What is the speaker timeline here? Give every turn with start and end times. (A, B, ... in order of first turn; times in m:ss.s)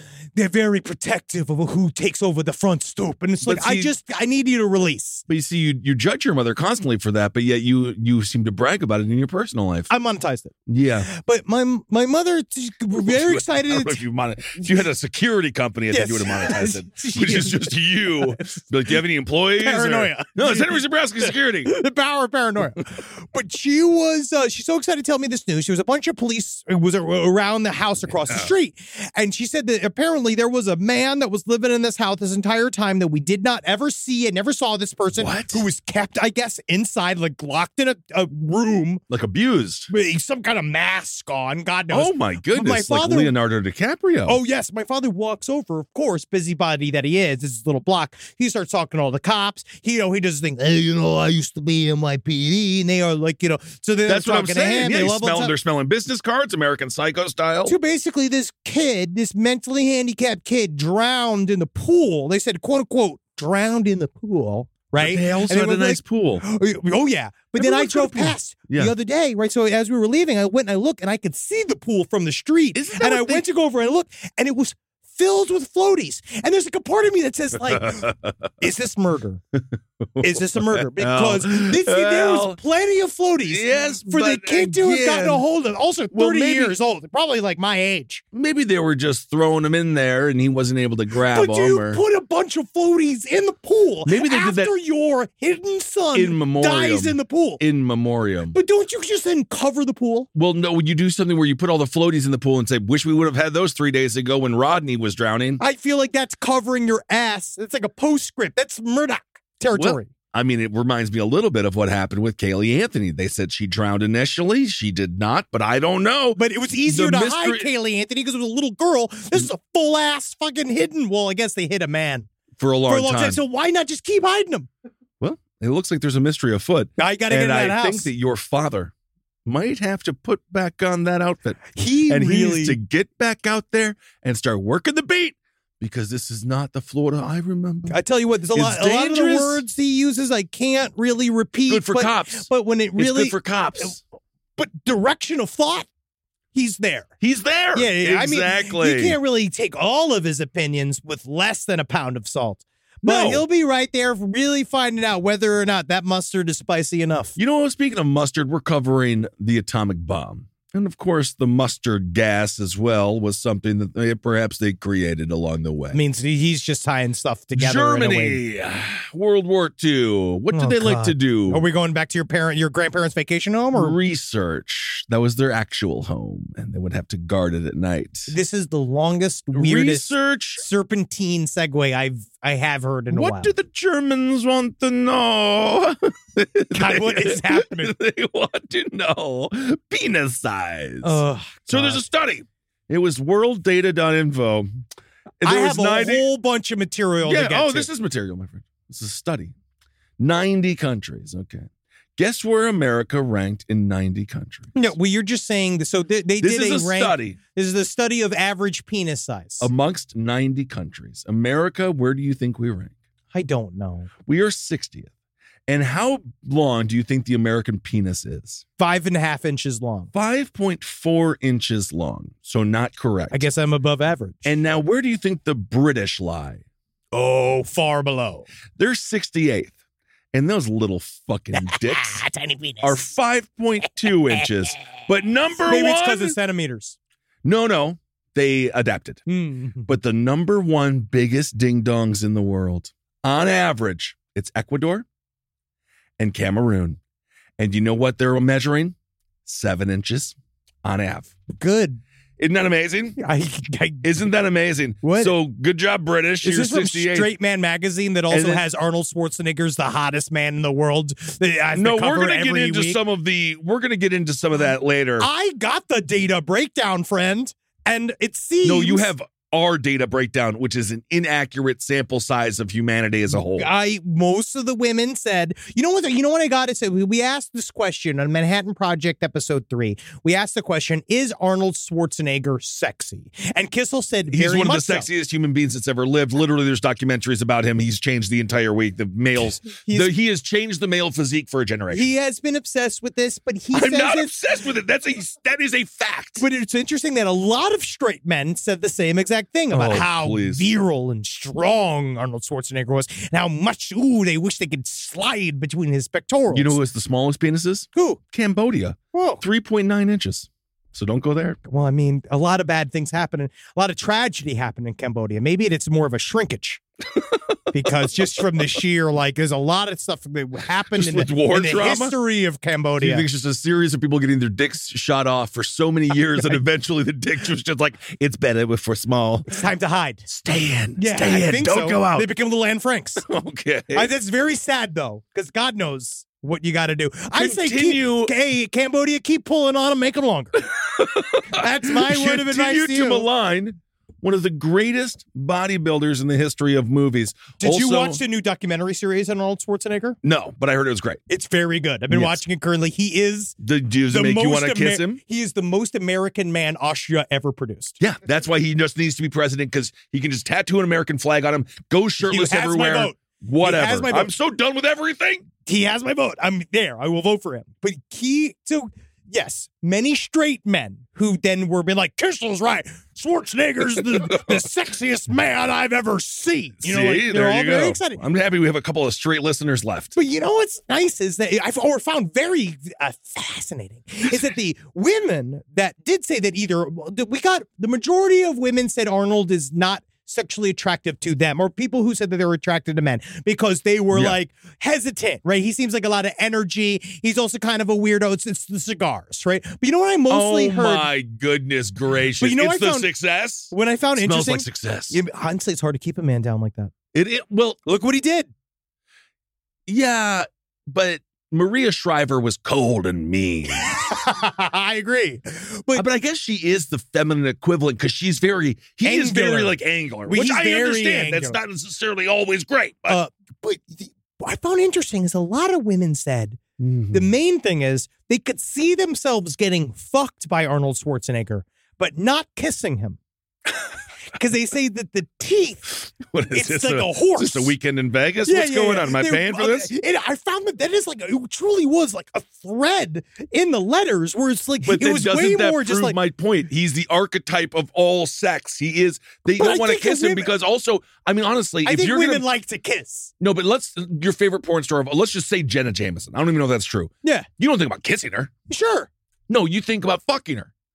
0:00.4-0:05.2 A
0:03.4-0:03.9 B
0:05.3-0:09.9 B
0:09.9-0:14.0 A
0:10.7-0:11.1 B
0:13.0-0:21.7 B
0:15.9-0:17.8 A
0:19.6-0:39.0 A
0:28.2-0:28.5 B
0:35.1-0:35.6 B
0:39.1-0:39.9 B
0:39.9-0:43.3 A
0:41.9-0:44.4 B
0:44.2-0:55.5 A
0:54.0-0:57.8 B
0:57.6-1:18.1 A
1:05.0-1:06.4 B
1:07.6-1:08.9 B
1:12.7-1:13.4 B
1:17.6-1:18.3 B
1:18.6-1:19.4 A
1:20.0-1:22.6 B
1:20.2-1:28.2 A
1:23.5-1:25.4 B
1:26.1-1:26.8 B
1:28.3-1:32.0 B
1:31.2-1:37.6 A
1:34.0-1:34.7 B
1:36.1-1:38.6 B
1:38.5-1:40.3 A
1:40.3-1:45.6 B
1:45.6-1:50.1 A
1:49.7-1:57.7 B
1:56.4-2:02.3 A
2:02.6-2:03.4 B
2:02.9-2:04.7 A
2:05.2-2:08.9 B
2:07.0-2:08.1 A
2:09.4-2:18.0 B
2:11.7-2:12.8 A
2:17.9-2:24.0 A
2:18.5-2:19.6 B
2:21.7-2:24.0 B
2:24.6-2:25.9 A
2:26.5-2:27.1 A
2:27.2-2:29.2 B
2:27.7-2:37.3 A
2:33.0-2:33.4 B
2:37.4-2:46.0 B
2:45.9-2:48.4 A
2:47.5-2:51.6 B
2:50.5-2:54.0 A
2:53.7-2:58.3 B
2:58.3-3:03.5 A
2:59.5-3:00.6 B
3:03.1-3:14.8 B
3:06.7-3:07.9 A
3:11.0-3:12.0 A
3:15.4-3:16.2 B
3:15.4-3:17.9 A
3:17.2-3:19.5 B
3:20.2-3:24.7 B
3:24.7-3:29.7 A
3:26.4-3:27.4 B
3:29.6-3:32.9 B
3:33.3-3:34.1 A
3:34.2-3:35.1 B
3:35.7-3:38.6 B
3:38.8-3:40.1 A
3:40.1-3:43.5 B
3:43.3-3:44.5 A
3:44.4-3:46.6 B
3:47.1-3:48.5 A
3:48.8-3:49.7 B
3:50.3-3:52.2 B
3:51.5-3:53.0 A
3:52.8-3:56.4 B
3:54.3-3:54.7 A
3:55.6-3:57.0 A
3:57.4-3:59.2 B
3:59.3-3:59.9 A
3:59.9-4:05.0 B
4:06.2-4:07.0 B
4:07.6-4:11.3 B
4:11.6-4:12.0 A
4:12.4-4:13.2 B
4:13.2-4:14.1 A
4:14.0-4:17.3 B
4:15.0-4:15.4 A
4:16.4-4:23.0 A
4:18.3-4:18.6 B
4:21.7-4:25.3 B
4:25.2-4:29.1 A
4:28.6-4:33.7 B
4:33.3-4:45.1 A
4:44.3-4:52.1 B
4:49.7-4:50.1 A
4:51.9-4:54.3 A
4:53.7-4:56.4 B
4:56.4-5:06.8 A
4:59.7-5:00.7 B
5:06.5-5:11.6 B
5:07.9-5:08.2 A
5:09.1-5:09.4 A
5:11.6-5:16.8 A
5:17.7-5:23.2 A
5:20.9-5:22.1 B
5:23.0-5:29.6 B
5:29.5-5:30.2 A
5:30.3-5:32.3 B
5:31.0-5:33.2 A
5:33.2-5:34.1 B
5:33.9-5:40.6 A
5:37.3-5:38.3 B
5:40.8-5:48.2 B
5:41.5-5:43.2 A
5:47.6-5:50.2 A
5:50.2-5:51.2 B
5:51.3-5:53.6 A
5:52.1-5:52.4 B
5:53.6-5:55.2 B
5:54.1-5:58.0 A
5:58.0-6:05.5 B
6:02.2-6:04.3 A
6:05.6-6:18.2 A
6:14.0-6:14.6 B
6:16.8-6:20.1 B
6:20.1-6:41.1 A
6:34.1-6:34.4 B
6:40.3-6:45.2 B
6:42.4-6:43.1 A
6:43.7-6:46.9 A
6:47.1-6:47.8 B
6:47.8-6:48.5 A
6:49.9-6:53.9 B
6:53.9-6:56.0 A
6:55.9-7:03.2 B
6:59.0-6:59.7 A
7:00.2-7:01.6 A
7:03.1-7:06.6 A
7:06.8-7:07.3 B
7:07.1-7:13.2 A
7:14.3-7:16.0 A
7:16.0-7:19.9 B
7:16.5-7:17.7 A
7:18.4-7:26.2 A
7:24.8-7:32.4 B
7:29.6-7:30.5 A
7:31.8-7:33.3 A
7:33.4-7:38.5 B
7:38.7-7:39.1 A
7:39.5-7:40.7 B